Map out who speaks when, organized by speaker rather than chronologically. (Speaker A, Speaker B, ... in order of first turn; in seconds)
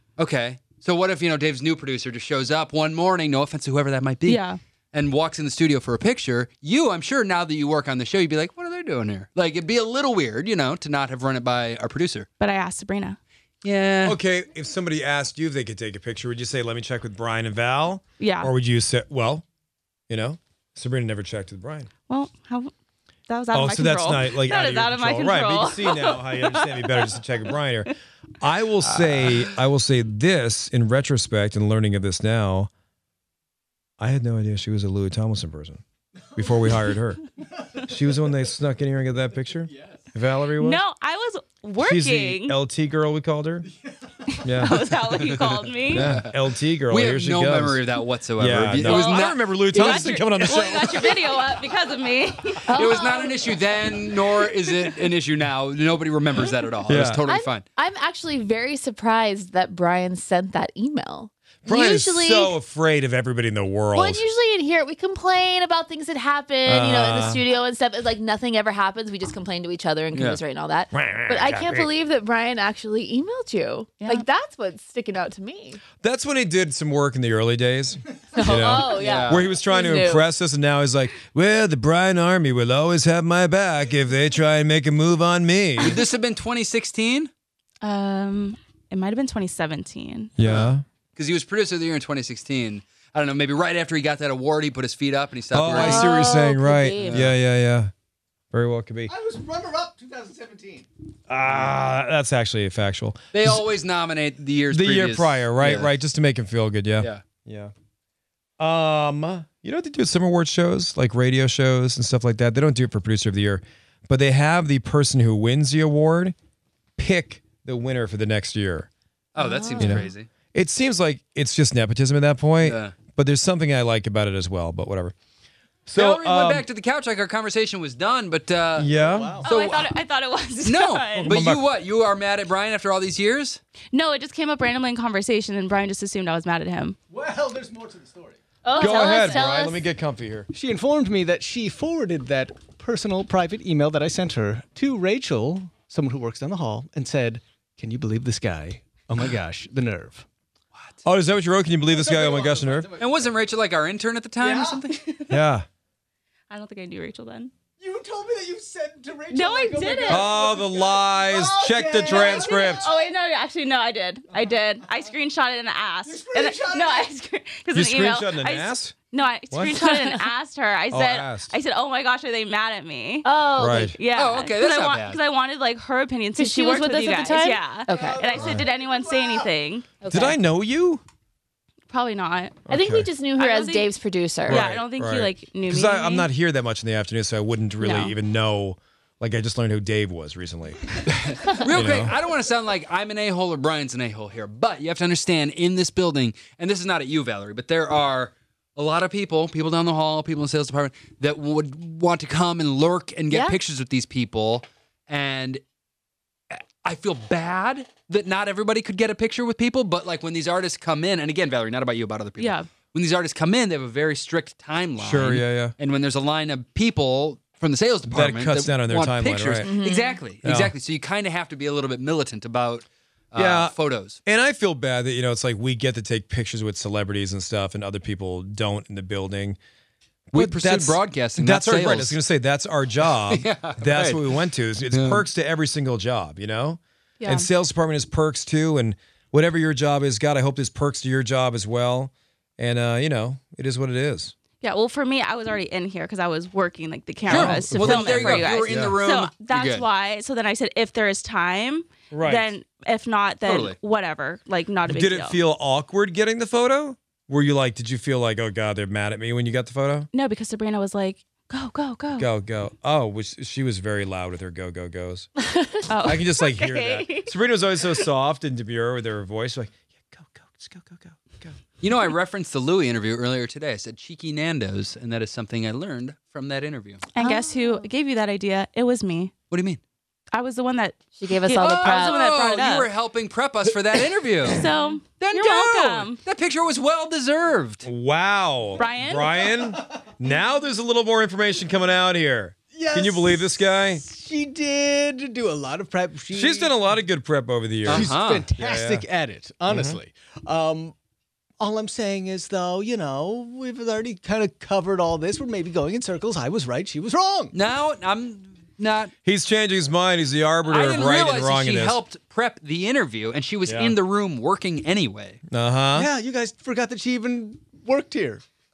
Speaker A: 0.2-4.4, 4.9-12.3, 13.6-14.2, 45.2-50.2, 52.8-57.6, 70.1-70.4, 78.9-79.5, 85.8-87.3, 91.2-96.4, 97.0-97.3, 101.5-101.7, 103.3-105.9, 119.3-120.3, 122.6-122.9, 125.9-128.9, 129.4-129.9, 130.6-133.6, 153.0-155.1, 174.1-175.2, 191.1-205.6, 206.5-224.2, 230.3-232.2, 233.3-235.2, 247.3-249.8, 253.4-253.8, 271.8-277.1, 279.5-279.8, 281.5-284.7, 285.2-287.9, 297.9-298.5, 307.5-309.1, 310.7-315.4
Speaker B: 4.2-4.6, 12.4-13.2, 18.2-18.5, 22.1-22.7, 23.3-27.1, 40.6-42.6, 44.3-46.1, 48.8-52.7, 87.8-90.3, 129.4-131.3, 133.9-137.0, 138.8-139.6, 156.5-157.5, 159.3-160.3, 162.1-173.3, 173.9-179.9, 181.9-182.6, 183.4-183.9, 184.5-186.3, 187.8-188.2, 212.4-212.7, 237.2-237.5, 244.6-255.4, 260.1-262.3, 265.9-267.3, 277.1-279.3, 280.3-282.9, 284.4-286.2, 288.8-289.3
Speaker C: 14.0-19.4, 20.1-21.9, 23.5-32.7, 34.0-35.8, 36.4-37.2, 37.8-40.8, 41.8-43.7, 44.4-44.9, 45.9-47.8, 48.4-51.3, 56.9-57.2, 61.6-64.2, 66.7-67.4, 70.9-71.9, 76.0-86.0, 90.4-90.8, 95.5-97.9, 98.5-99.1, 101.3-103.6, 104.7-107.7, 108.6-116.3, 117.0-118.9, 119.8-125.1, 125.9-126.7, 128.8-129.4, 131.1-131.6, 138.8-140.5, 151.0-152.9, 155.3-155.7, 160.1-162.9, 167.7-168.9, 170.9-171.5, 173.6-173.9, 178.4-178.6, 180.1-181.0, 182.7-183.1, 184.5-191.0, 191.7-192.1, 215.0-215.8, 218.1-219.7, 220.4-220.7, 223.3-229.6, 230.3-244.3, 247.2-248.9, 252.1-252.5, 254.9-260.1, 262.2-265.3, 266.0-271.6, 287.8-294.0, 296.3-299.1, 299.7-300.0, 309.2-312.0, 313.6-314.0, 315.5-316.1
Speaker D: 52.7-53.4, 57.3-62.5, 63.9-75.8, 78.3-80.2, 95.7-97.3, 119.4-120.1, 138.6-139.8, 169.8-170.2, 173.2-173.9, 176.4-178.3, 180.0-180.4, 182.7-184.6, 203.3-203.6, 219.6-220.2, 277.2-277.9, 281.2-282.2
Speaker E: 99.1-100.9, 128.8-129.5, 137.1-138.4, 140.5-150.2, 151.9-153.1, 154.4-154.9, 157.8-163.1, 166.1-167.1, 177.9-179.5, 292.7-296.7, 297.9-300.9, 301.6-307.5, 315.9-318.4